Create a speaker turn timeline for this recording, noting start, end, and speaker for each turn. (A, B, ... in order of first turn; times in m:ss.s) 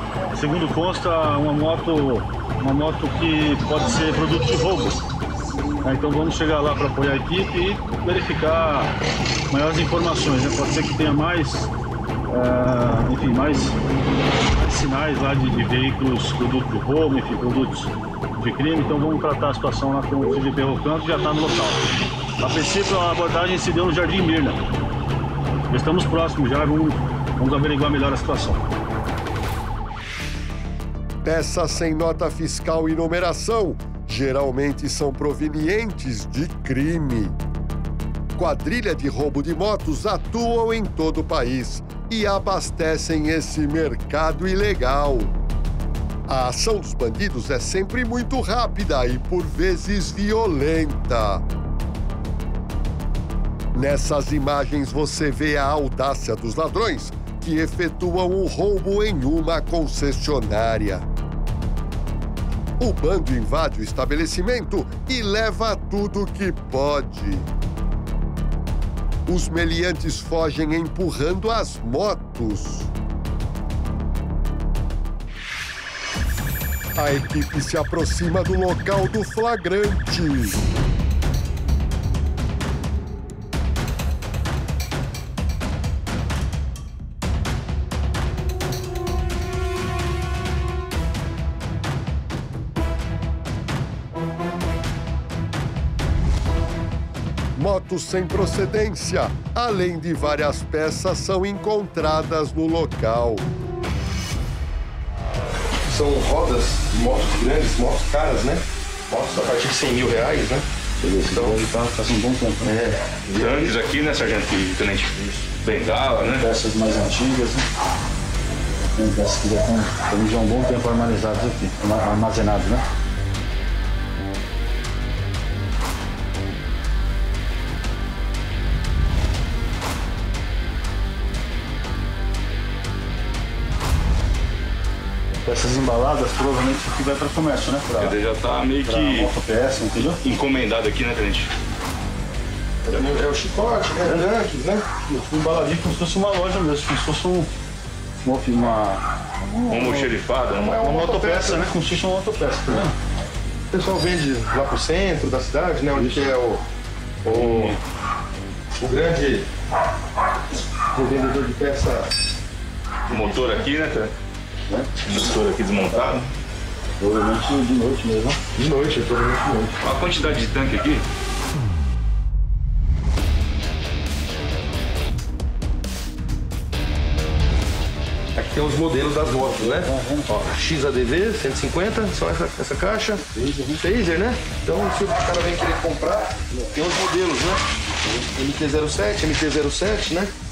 0:00.3-0:05.0 A
0:05.8-0:08.9 A
0:09.5-0:11.7 A
0:12.3-0:13.8 A
0:14.6-0:21.8 A
0:22.4-0:24.6 A
0:25.7-0:28.6 A
0:31.2-0:37.4 B
0:38.4-0:45.3 B
0:46.3-0:51.4 B
0:53.7-1:01.0 B
1:02.8-1:07.5 B
1:09.2-1:12.9 B
1:17.0-1:20.6 B
1:37.6-1:43.5 B
1:45.8-1:51.7 C
1:51.0-1:52.8 A
1:52.6-1:53.7 C
1:53.3-1:56.5 D
1:56.3-1:57.6 A
1:59.0-2:02.8 A
2:15.4-2:18.2 A
2:18.0-2:19.3 D
2:18.8-2:20.2 A
2:20.2-2:21.5 D
2:22.8-2:24.8 C
2:24.0-2:24.3 A
2:25.0-2:27.5 A
2:28.2-2:29.0 A
2:29.6-2:30.1 A
2:29.7-2:30.8 D
2:30.5-2:31.6 C
2:30.8-2:32.9 A
2:33.7-2:36.6 C
2:35.9-2:36.3 A
2:37.2-2:37.8 C
2:37.3-2:37.8 A
2:38.8-2:39.5 C
2:40.9-2:42.1 C
2:43.1-2:44.1 D
2:45.0-2:46.3 D
2:47.0-2:48.4 A
2:48.5-2:49.8 C
2:49.8-2:51.0 D
2:58.3-3:07.6 C
2:59.5-3:00.3 A
3:03.3-3:03.8 A
3:08.2-3:10.3 C